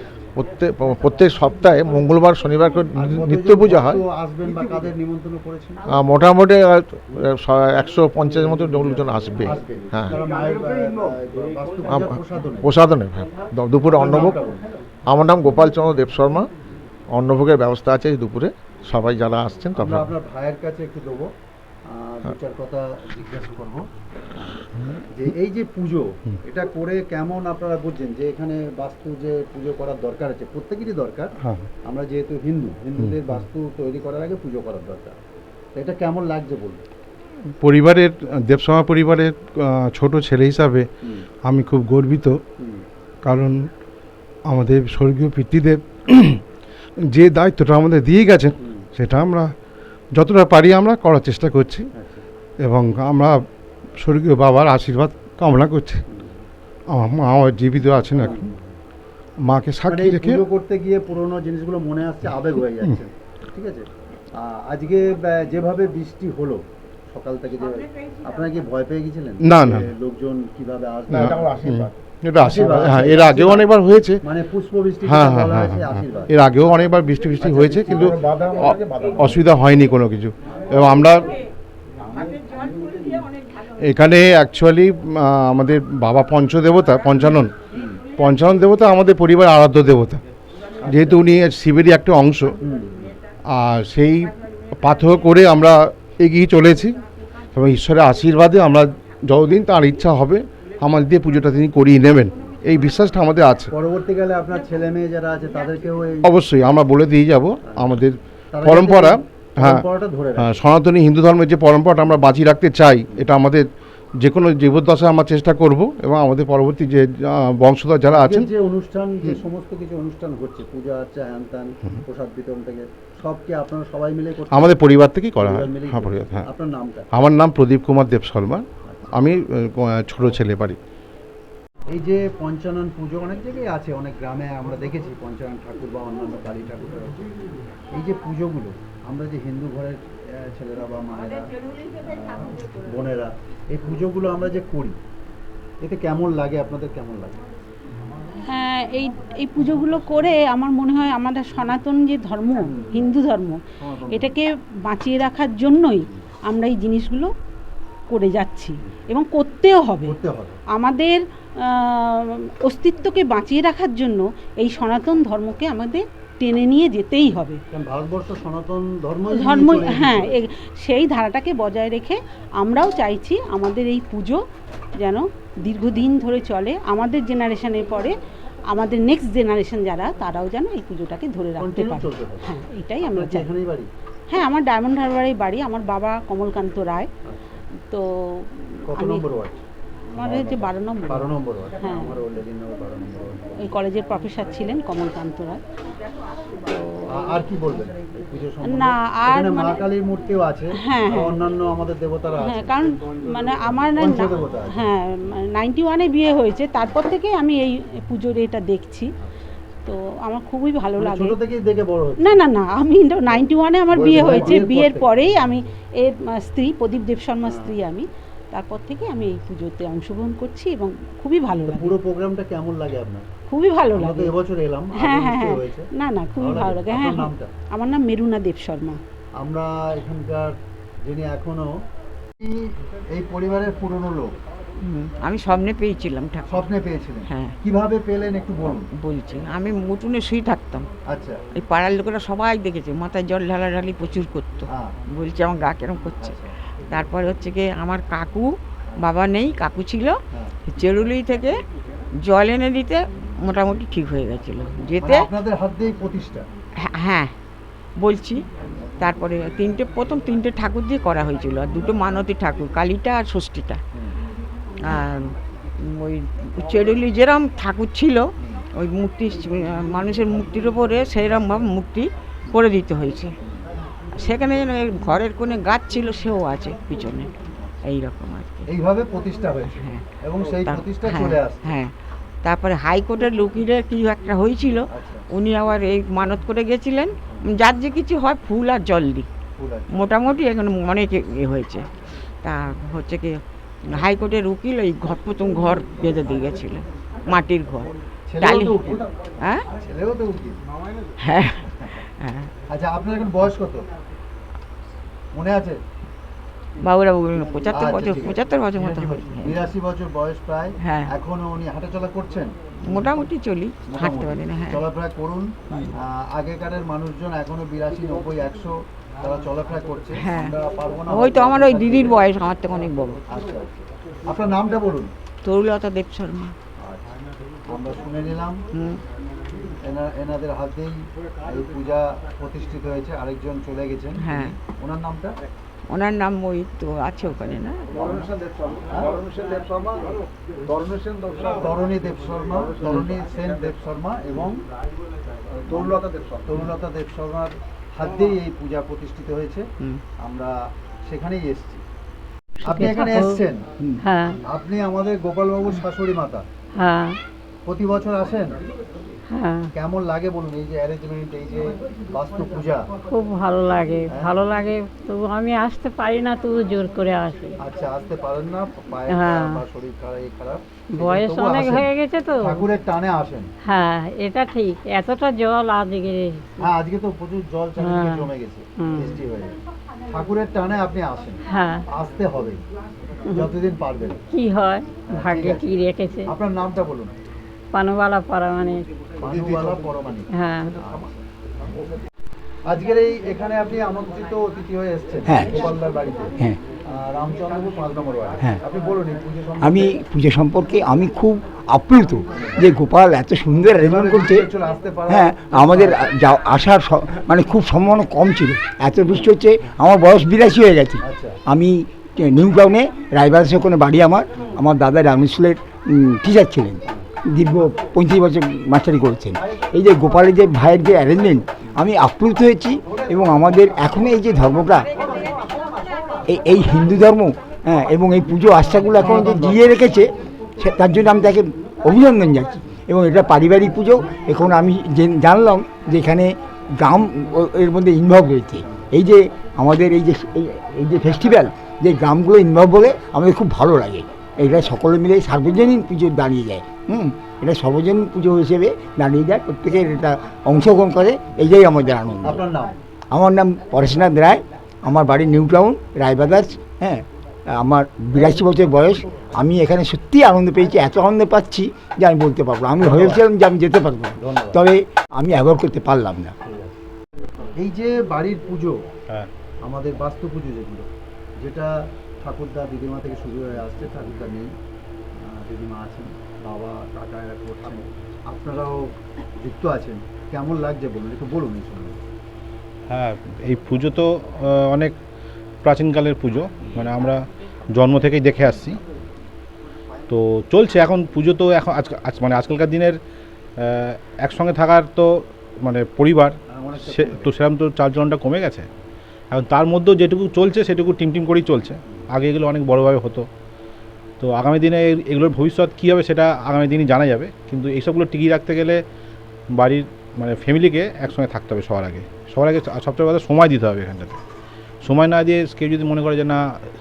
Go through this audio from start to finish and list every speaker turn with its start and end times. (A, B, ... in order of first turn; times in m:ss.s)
0:00.4-0:04.0 A
0:03.0-0:05.8 B
0:05.9-0:10.2 A
0:08.4-0:12.7 B
0:11.9-0:14.4 A
0:13.8-0:14.6 B
0:15.1-0:16.5 A
0:17.1-0:20.1 A
0:19.8-0:21.3 B
0:21.9-0:23.9 B
0:25.1-0:31.3 B
0:31.4-0:31.7 C
0:31.8-0:35.2 B
0:35.8-0:36.8 B
0:37.6-0:40.9 C
0:41.4-0:42.4 C
0:42.6-0:42.8 B
0:43.2-0:43.7 C
0:44.5-0:46.4 C
0:47.1-0:49.5 C
0:48.6-0:48.9 B
0:50.2-0:51.9 C
0:51.9-0:52.3 B
0:52.6-0:53.4 C
0:54.0-0:56.0 C
0:56.1-0:56.5 B
0:56.9-0:58.5 C
0:58.2-0:58.8 B
0:59.5-1:00.4 C
0:59.8-1:11.8 B
1:09.4-1:09.9 C
1:11.1-1:14.2 C
1:11.1-1:11.9 A
1:12.4-1:13.7 B
1:14.2-1:18.0 B
1:15.1-1:21.3 C
1:17.6-1:19.4 A
1:23.9-1:27.5 C
1:27.2-1:28.0 B
1:28.2-1:30.2 C
1:30.8-1:32.6 C
1:30.8-1:31.2 B
1:32.6-1:33.2 B
1:33.5-1:37.0 C
1:37.6-1:43.7 C
1:43.7-1:46.4 B
1:46.2-1:49.8 C
1:47.6-1:48.0 B
1:48.5-1:50.6 B
1:50.4-1:53.7 C
1:54.2-1:58.5 C
1:58.1-2:04.8 B
2:04.5-2:06.4 C
2:05.4-2:07.0 B
2:07.1-2:10.8 C
2:08.9-2:09.3 B
2:11.9-2:17.2 B
2:17.9-2:25.0 B
2:25.8-2:27.4 B
2:28.5-2:33.6 D
2:33.8-2:34.4 B
2:34.1-2:37.3 D
2:38.1-2:40.1 D
2:40.0-2:40.6 B
2:40.7-2:47.6 D
2:47.7-2:50.4 B
2:49.4-2:54.4 D
2:55.0-2:58.2 D
2:58.7-3:03.5 D
3:01.6-3:02.5 B
3:03.1-3:03.9 B
3:04.3-3:07.1 D
3:07.2-3:07.6 B
3:07.9-3:09.2 D
3:08.9-3:09.6 B
3:10.2-3:11.3 D
3:10.2-3:13.6 B
3:13.6-3:15.6 D
3:17.1-3:22.8 B
3:18.7-3:19.8 D
3:20.8-3:21.3 D
3:22.4-3:29.1 D
3:24.0-3:24.8 B
3:29.9-3:31.4 D
3:31.0-3:32.4 B
3:32.2-3:42.0 D
3:33.9-3:35.2 B
3:37.4-3:37.7 B
3:41.7-3:43.3 B
3:43.5-3:44.3 D
3:43.9-3:47.5 B
3:45.0-3:49.0 D
3:49.4-3:51.8 B
3:52.4-3:54.3 B
3:54.8-3:56.7 E
3:56.5-3:58.9 B
3:57.3-3:57.6 E
3:58.9-4:00.9 E
4:01.1-4:01.4 B
4:01.6-4:10.2 E
4:04.7-4:05.0 B
4:06.2-4:06.5 B
4:10.7-4:11.6 E
4:12.2-4:15.3 E
4:15.0-4:16.5 B
4:16.8-4:17.3 E
4:18.0-4:18.5 E
4:19.0-4:23.8 E
4:24.8-4:33.3 E
4:34.1-4:37.3 E
4:37.8-4:38.7 E
4:38.7-4:41.7 B
4:39.7-4:41.9 E
4:42.4-4:49.3 E
4:44.9-4:45.2 B
4:49.6-4:50.1 B
4:49.9-4:51.9 E
4:52.4-4:59.6 E
4:58.3-4:59.1 B
4:59.8-5:00.6 B
5:01.2-5:02.5 E
5:02.7-5:03.9 B
5:05.3-5:05.8 B
5:06.8-5:09.7 E
5:07.7-5:13.2 B
5:10.8-5:11.1 E
5:12.9-5:14.8 E
5:13.9-5:22.3 B
5:20.2-5:20.5 E
5:21.1-5:23.2 E
5:23.2-5:25.1 B
5:25.4-5:26.5 E
5:26.8-5:27.1 B
5:27.7-5:28.6 B
5:28.7-5:29.0 E
5:29.8-5:35.4 B
5:34.2-5:34.6 E
5:35.9-5:38.3 E
5:37.9-5:39.9 B
5:38.1-5:38.6 C
5:40.6-5:44.6 B
5:42.8-5:43.2 E
5:45.6-5:49.7 B
5:50.2-5:51.8 B
5:52.6-5:53.4 F
5:52.7-5:53.7 B
5:54.0-5:54.4 F
5:54.5-5:56.4 B
5:56.8-5:57.2 F
5:57.6-5:58.6 B
5:59.3-5:59.7 F
5:59.8-6:02.9 B
6:03.1-6:07.6 F
6:04.1-6:04.4 B
6:07.6-6:11.9 B
6:09.1-6:09.6 F
6:11.0-6:12.7 F
6:12.4-6:13.5 B
6:13.6-6:16.7 F
6:16.6-6:19.6 B
6:17.8-6:19.2 F
6:20.1-6:22.6 B
6:21.5-6:21.8 F
6:23.3-6:24.2 B
6:24.3-6:26.3 F
6:25.1-6:27.2 B
6:27.7-6:28.9 F
6:29.2-6:31.1 B
6:30.3-6:30.8 F
6:32.7-6:36.4 B
6:35.3-6:35.7 G
6:37.0-6:40.0 B
6:39.6-6:44.5 G
6:43.8-6:46.1 B
6:45.1-7:04.9 G
6:51.0-6:51.4 B
7:06.3-7:32.4 G
7:08.9-7:09.6 B
7:32.2-7:32.8 B
7:33.1-7:46.4 G
7:42.8-7:43.2 H
7:44.2-7:44.6 B
7:46.4-7:46.8 B
7:47.6-7:48.8 B
7:49.6-7:54.5 B
7:55.2-8:02.0 B
8:02.9-8:04.9 H
8:05.6-8:07.2 H
8:07.8-8:08.8 H
8:10.1-8:13.0 H
8:13.6-8:15.1 H
8:15.6-8:18.6 H
8:16.5-8:17.3 B
8:19.3-8:23.3 H
8:24.2-8:28.8 H
8:29.6-8:34.2 H
8:34.8-8:36.4 H